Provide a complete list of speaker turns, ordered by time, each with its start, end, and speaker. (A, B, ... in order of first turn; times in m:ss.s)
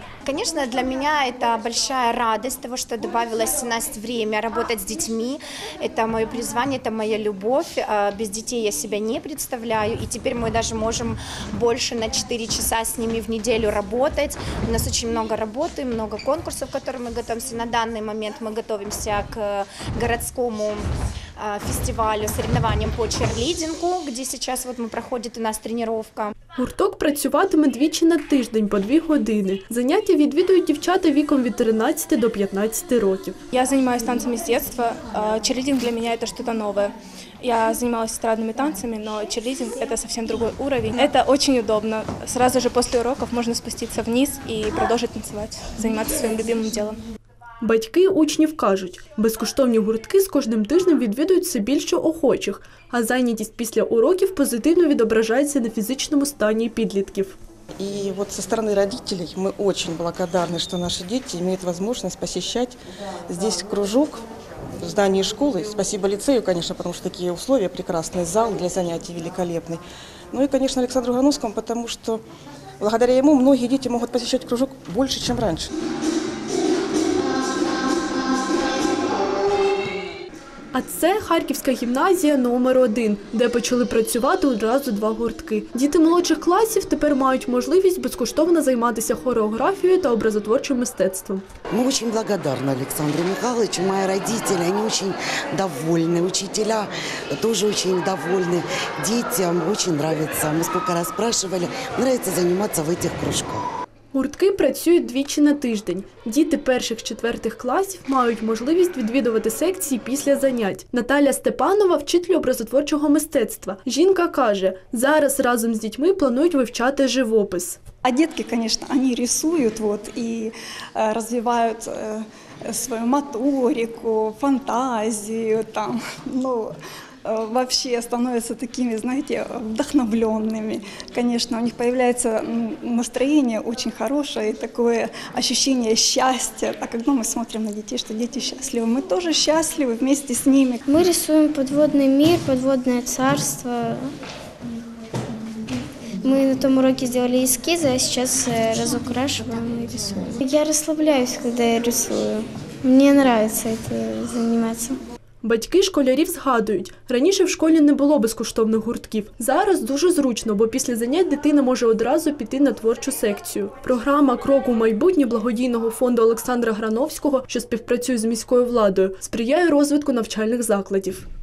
0:00.2-0:26.3 A
0:26.6-0:33.4 B
0:33.5-0:47.0 C
0:47.6-0:57.4 B
0:57.8-1:02.8 D
1:03.3-1:04.2 D
1:04.8-1:12.2 D
1:12.8-1:15.7 D
1:20.7-1:31.4 B
1:31.7-1:43.6 E
1:44.1-1:57.8 B
1:58.0-2:06.7 F
2:07.2-2:20.8 F
2:20.9-2:24.1 G
2:26.2-2:35.0 G
2:35.4-2:51.2 B